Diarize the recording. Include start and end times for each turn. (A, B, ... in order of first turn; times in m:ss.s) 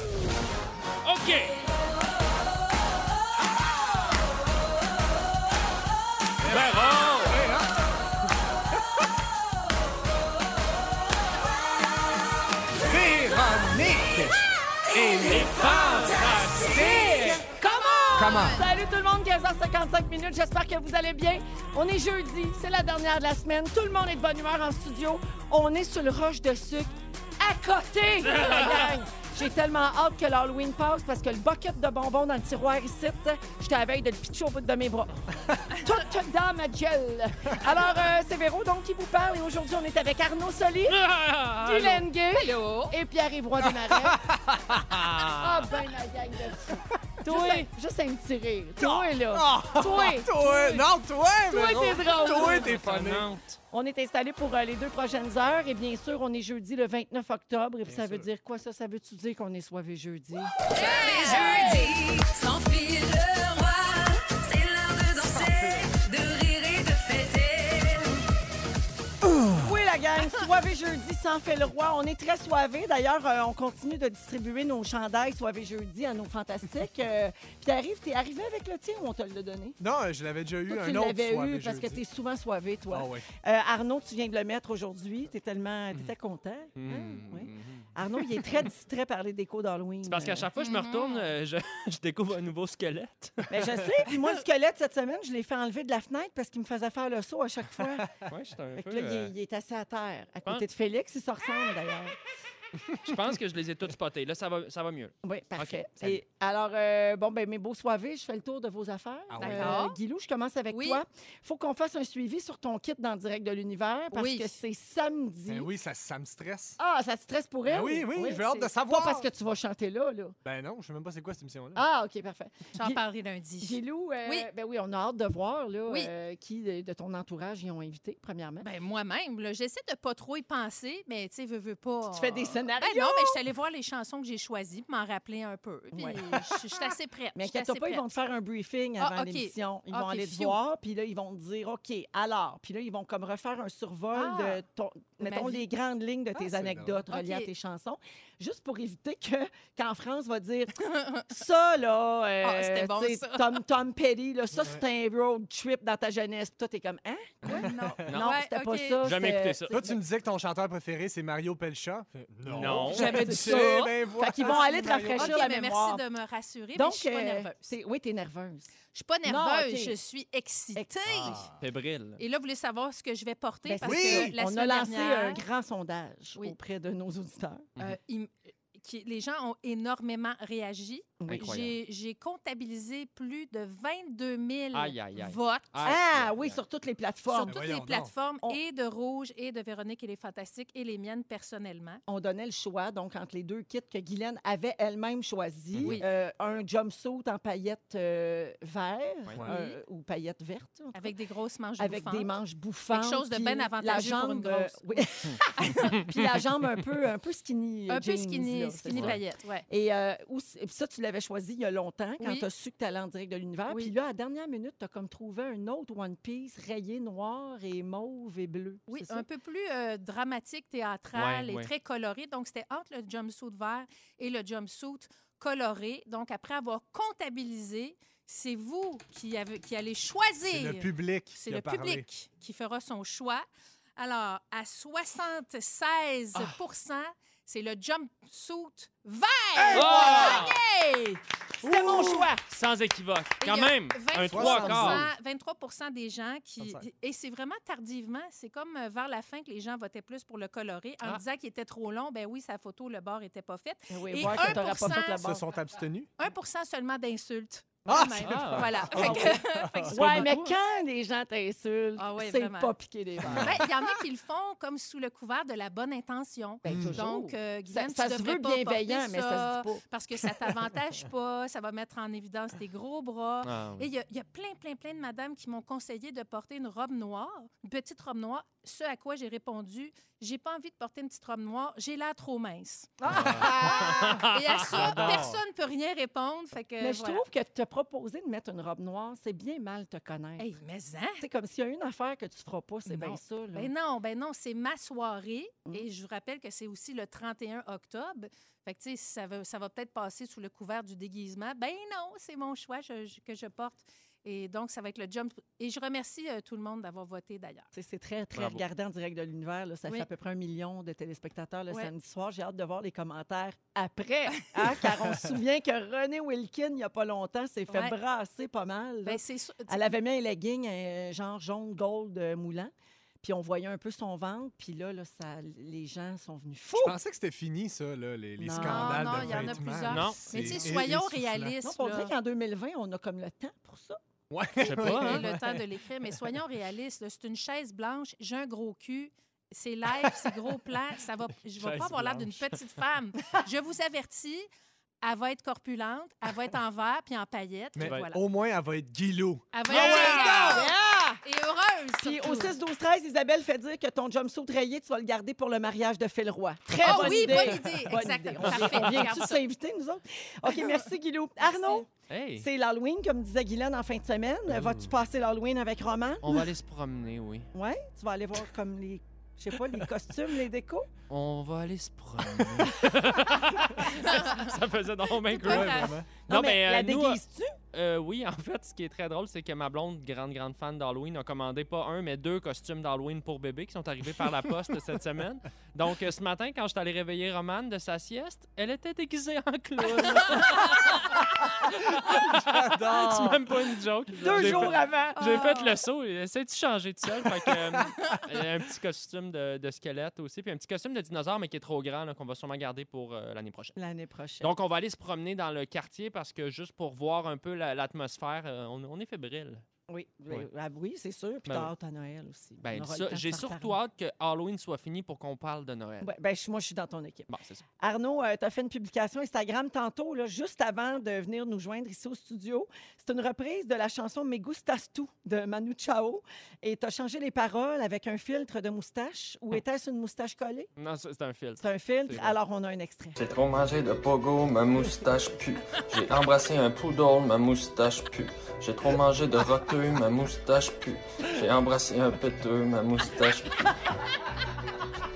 0:01.0-0:01.6 A
0:06.4-0:07.7 B
0:06.5-0:07.4 A
0:12.8-0:17.4 B
0:15.2-0:17.4 A
0:16.7-0:35.2 C
0:17.8-0:18.6 D
0:18.2-0:18.6 B
0:28.3-0:28.9 A
0:35.8-0:41.0 C
0:40.9-0:42.0 A
0:41.6-0:44.2 C
0:42.4-0:43.0 D
0:43.9-0:45.1 B
0:44.9-0:45.7 A
0:45.3-0:50.3 C
0:48.8-0:53.3 B
0:50.4-0:50.7 D
0:51.5-0:52.7 C
0:52.2-0:53.6 A
0:53.7-1:01.9 C
0:57.8-0:58.3 B
1:00.8-1:01.9 D
1:00.9-1:08.2 E
1:05.4-1:06.0 B
1:09.5-1:19.8 C
1:19.8-1:22.0 B
1:20.7-1:30.5 C
1:22.9-1:23.2 B
1:26.8-1:27.9 A
1:30.0-1:33.7 A
1:30.6-1:31.2 D
1:33.5-1:38.1 C
1:38.3-1:39.3 A
1:38.8-1:42.2 C
1:43.0-1:46.2 A
1:45.2-1:55.7 C
1:49.3-1:49.8 B
1:49.4-1:50.0 D
1:50.7-1:51.0 D
1:54.1-1:54.5 D
1:55.5-1:56.8 B
1:56.8-2:00.4 C
1:57.7-1:59.3 B
2:00.4-2:01.8 B
2:01.8-2:03.0 C
2:02.8-2:04.5 D
2:03.6-2:08.7 C
2:08.6-2:18.1 D
2:12.1-2:13.4 C
2:15.9-2:30.8 C
2:19.0-2:20.6 D
2:24.1-2:24.6 D
2:25.2-2:25.6 D
2:26.4-2:27.0 B
2:27.1-2:27.5 D
2:30.8-2:31.3 D
2:31.3-2:40.0 C
2:32.4-2:33.6 D
2:37.5-2:38.4 A
2:37.5-2:39.0 D
2:37.5-2:38.1 B
2:39.0-2:39.8 A
2:39.7-2:45.5 B
2:42.5-2:43.2 A
2:42.9-2:47.7 D
2:42.9-2:46.0 C
2:46.8-2:48.7 C
2:48.9-2:51.4 D
2:49.2-2:50.0 C
2:50.8-2:51.4 C
2:51.1-2:51.5 B
2:51.6-2:52.2 A
2:52.2-2:55.4 D
2:53.6-2:57.7 C
2:53.8-2:54.3 B
2:57.8-3:05.7 D
3:01.2-3:01.5 C
3:01.3-3:01.8 A
3:04.7-3:06.6 A
3:05.8-3:07.6 C
3:07.3-3:12.0 D
3:07.5-3:08.1 B
3:12.1-3:21.2 C
3:19.5-3:19.8 D
3:20.9-3:22.3 D
3:21.8-3:39.3 C
3:22.9-3:25.0 D
3:27.9-3:29.7 D
3:32.2-3:32.5 D
3:38.9-4:01.2 D
3:41.2-3:41.7 A
3:50.4-3:52.1 B
3:59.7-4:00.2 C
3:59.7-4:00.6 A
4:01.6-4:02.4 C
4:01.7-4:02.3 B
4:02.1-4:05.1 A
4:03.4-4:15.2 D
4:04.2-4:05.1 B
4:06.6-4:06.9 B
4:13.9-4:15.4 C
4:14.3-4:16.1 B
4:16.2-4:20.5 D
4:17.9-4:20.3 B
4:18.3-4:19.1 A
4:18.9-4:23.9 C
4:22.0-4:22.7 D
4:23.2-4:23.6 B
4:23.4-4:47.2 D
4:26.6-4:29.8 C
4:26.6-4:27.0 B
4:33.4-4:33.9 A
4:43.0-4:44.2 C
4:43.1-4:43.6 B
4:44.7-4:45.4 B
4:46.8-4:50.5 C
4:50.4-4:51.2 D
4:51.2-4:53.7 C
4:52.9-5:07.7 D
5:07.8-5:27.0 C
5:08.4-5:08.6 A
5:17.7-5:18.0 D
5:19.1-5:19.9 D
5:26.8-5:31.6 B
5:28.4-5:29.6 C
5:28.5-5:32.1 D
5:29.9-5:30.2 A
5:30.4-5:30.7 C
5:31.6-5:34.0 C
5:34.3-5:35.6 B
5:34.6-5:35.3 A
5:34.8-5:44.5 D
5:41.6-5:42.6 B
5:45.0-5:48.2 D
5:47.8-5:50.7 B
5:49.5-5:50.7 D
5:49.7-5:50.3 A
5:49.8-5:51.2 C
5:51.2-5:52.5 D
5:52.0-6:06.5 C
5:56.8-5:59.4 D
5:56.9-5:57.5 B
5:58.1-5:58.9 B
6:00.5-6:00.8 D
6:01.4-6:01.8 D
6:02.1-6:02.5 A
6:04.6-6:04.8 B
6:06.2-6:07.5 A
6:07.6-6:10.9 C
6:11.1-6:17.2 A
6:12.2-6:12.7 B
6:14.0-6:14.4 D
6:15.3-6:15.9 D
6:15.4-6:16.1 B
6:16.3-6:17.5 C
6:17.7-6:43.8 A
6:32.0-6:33.6 B
6:34.2-6:35.2 C
6:34.2-6:34.8 B
6:35.2-6:35.8 D
6:43.8-6:44.5 C
6:44.4-6:49.6 A
6:49.9-6:53.8 C
6:52.6-6:56.1 A
6:56.0-7:10.7 C
6:57.3-6:57.6 A
7:10.8-7:12.3 A
7:11.6-7:13.2 C
7:13.2-7:23.7 F